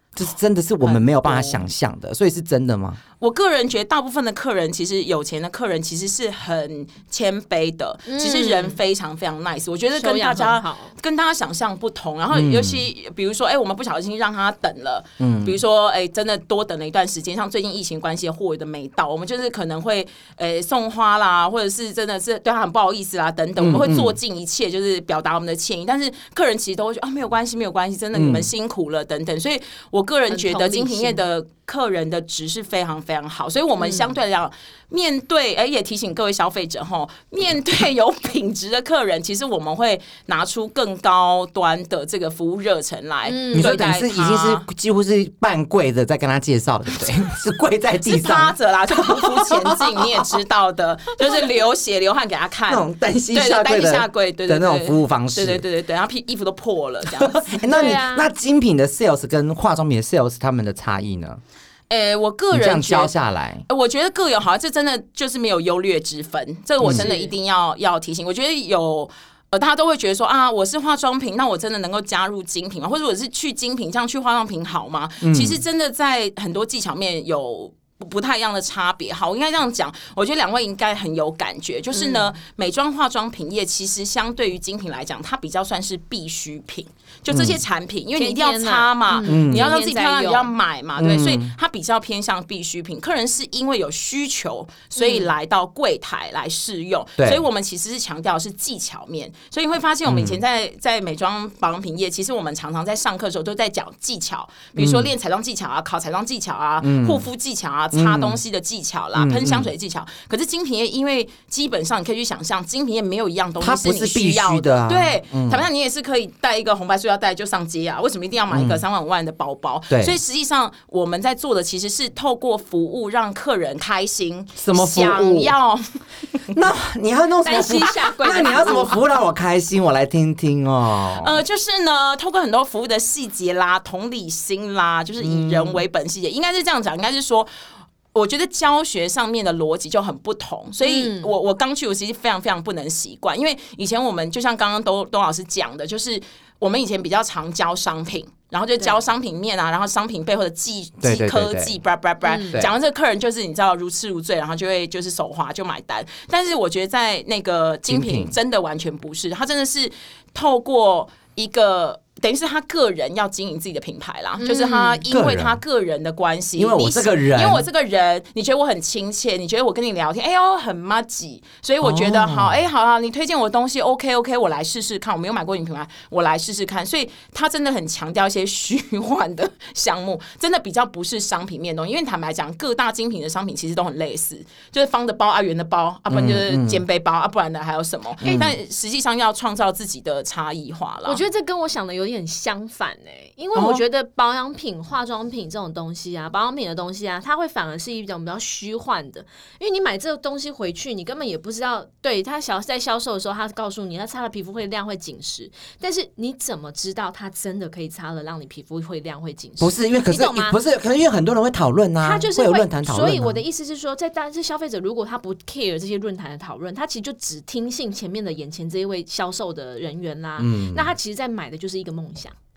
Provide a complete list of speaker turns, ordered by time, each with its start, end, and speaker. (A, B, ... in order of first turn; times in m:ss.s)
0:00.2-0:03.0 A
0:00.8-0:01.6 B
0:03.2-0:44.6 B
0:08.1-0:08.8 C
0:10.0-0:10.9 C
0:12.3-0:12.8 A
0:15.2-0:15.6 A
0:23.6-0:24.2 A
0:28.1-0:28.5 A
0:30.3-0:31.2 C
0:33.8-0:34.1 C
0:43.2-0:43.9 C
0:43.5-0:50.3 A
0:48.0-0:58.0 B
0:52.7-0:55.6 A
0:57.1-1:01.4 A
0:57.7-0:58.3 C
1:01.9-1:03.1 B
1:02.5-1:03.6 A
1:03.7-2:06.6 B
1:06.8-1:07.1 A
1:06.9-1:07.3 C
1:15.2-1:15.6 A
1:21.9-1:22.3 C
1:27.3-1:27.6 A
1:28.1-1:30.5 C
1:29.2-1:29.7 A
1:31.0-1:31.5 A
1:35.0-1:35.3 C
1:37.2-1:37.4 A
1:40.0-1:40.4 A
1:44.8-1:45.1 A
1:46.8-1:47.2 A
1:47.9-1:48.4 A
1:49.1-1:49.7 A
1:53.6-1:55.7 A
1:58.5-1:58.8 A
1:59.9-2:00.2 A
2:04.6-2:05.5 A
2:06.5-2:11.4 A
2:07.4-2:09.0 C
2:11.0-2:17.5 B
2:15.2-2:15.8 A
2:18.1-3:11.2 B
2:20.8-2:21.3 C
2:31.0-2:31.8 A
2:32.2-2:32.6 C
2:37.9-2:38.4 A
2:44.4-2:45.0 C
2:45.1-2:45.6 A
2:46.6-2:47.7 A
2:51.8-2:52.6 A
3:06.1-3:06.8 A
3:08.2-3:08.6 A
3:11.0-3:30.6 C
3:29.6-3:33.4 A
3:32.0-3:42.3 C
3:40.4-3:40.9 A